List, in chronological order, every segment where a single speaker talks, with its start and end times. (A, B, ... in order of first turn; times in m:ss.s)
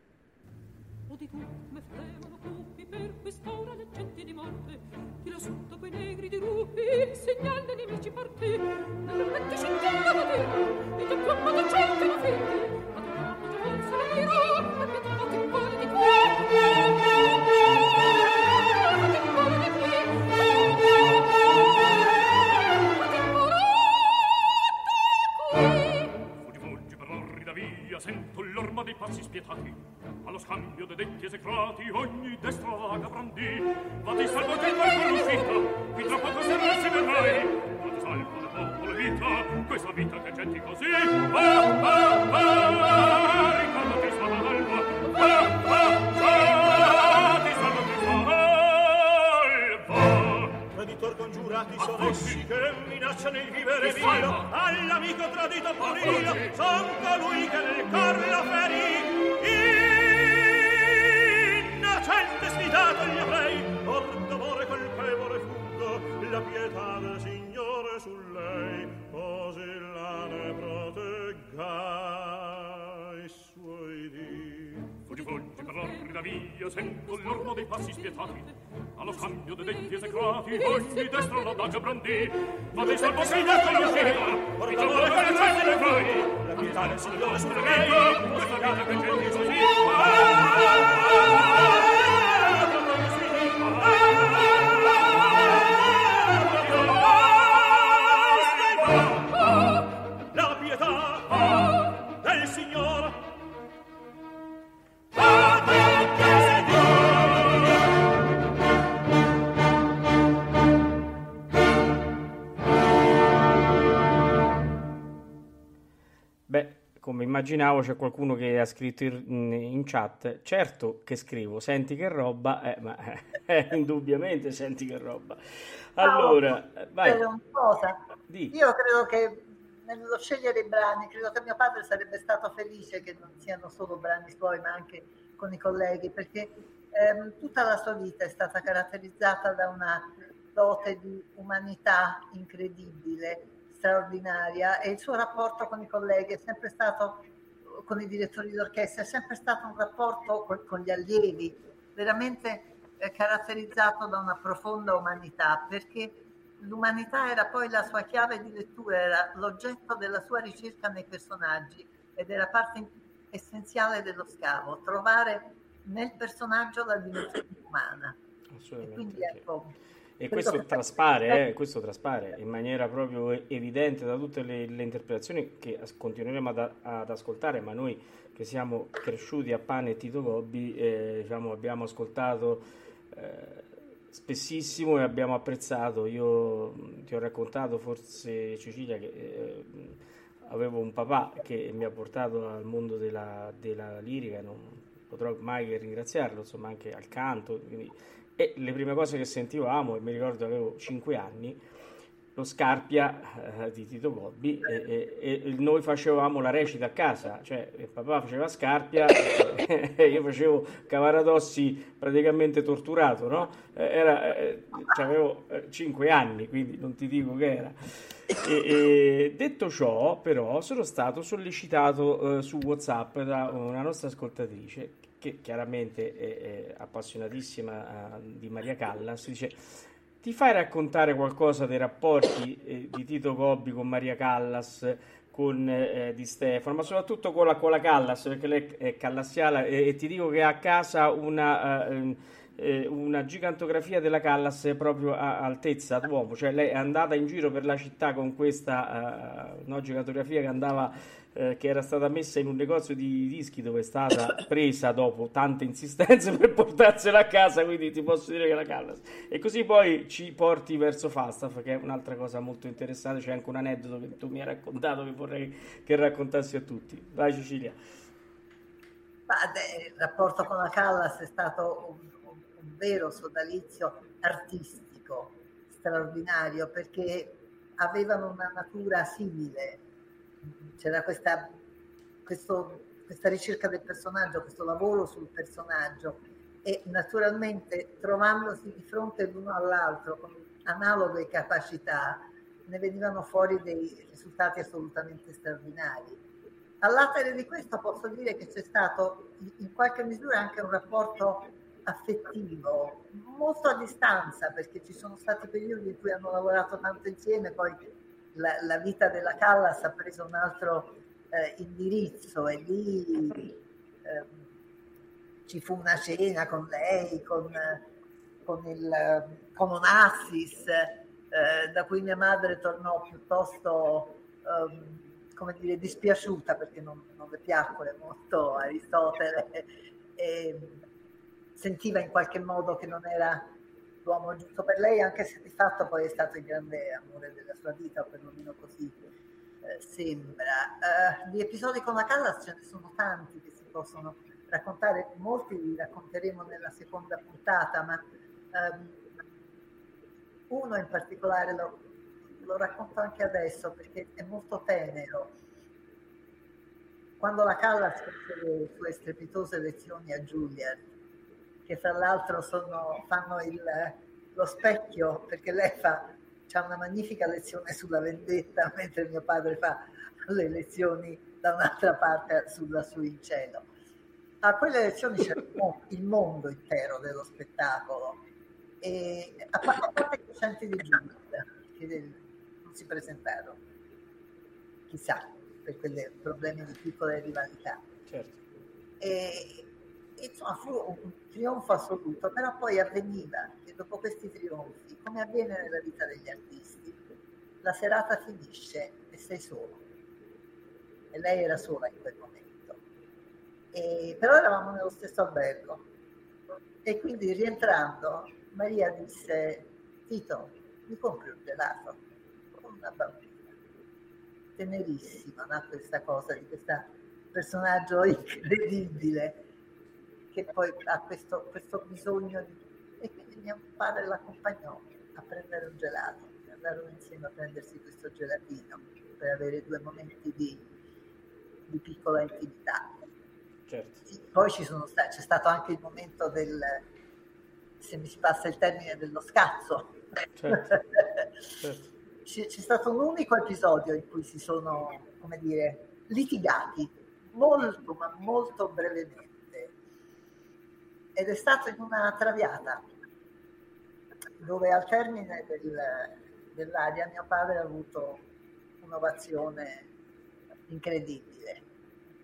0:01.1-0:26.1 A
0:26.3-0:50.6 B
0:50.7-1:15.0 C
0:51.8-0:52.4 B
0:53.8-0:54.5 B
0:55.8-0:56.6 B
1:15.1-1:31.6 B
1:15.1-1:22.3 A
1:22.7-1:39.7 C
1:34.2-1:35.1 B
1:36.6-1:39.1 B
1:40.3-1:43.2 C
1:45.1-1:47.8 C
1:56.5-2:07.2 D
2:06.0-2:06.4 E
2:07.0-2:08.0 E
2:08.3-2:08.6 D
2:08.5-2:48.2 E
2:48.5-2:49.4 D
2:48.8-2:49.7 E
2:50.2-3:21.6 D
2:50.3-2:50.8 E
3:22.3-4:27.8 D
4:29.3-4:39.8 E
4:40.8-4:41.5 E
4:42.2-4:56.2 E
4:56.8-5:14.3 E
5:15.5-5:17.8 E
5:18.4-5:30.8 E
5:31.6-5:33.5 E
5:34.0-5:39.0 E
5:39.6-5:48.0 E
5:48.5-5:49.0 E
5:50.5-5:55.3 E
5:57.2-6:00.9 E
6:01.7-6:13.6 E
6:14.4-6:18.2 E
6:18.8-6:23.6 E
6:24.9-6:27.8 E
6:28.1-6:28.4 D
6:29.0-6:37.0 E
6:37.6-6:39.8 E
6:41.1-6:42.8 E
6:43.7-6:45.8 E
6:46.8-6:52.0 E
6:52.6-6:53.5 E
6:54.6-6:59.4 E
7:00.3-7:10.6 E
7:11.7-7:12.9 E
7:13.7-7:14.0 D
7:14.1-7:16.8 E
7:17.8-7:20.0 E
7:20.4-7:20.7 D
7:20.5-7:21.3 E
7:21.6-7:21.9 D
7:22.2-7:29.7 E
7:31.2-7:32.8 E
7:34.4-7:38.2 E
7:38.8-7:39.8 E
7:40.7-7:41.6 E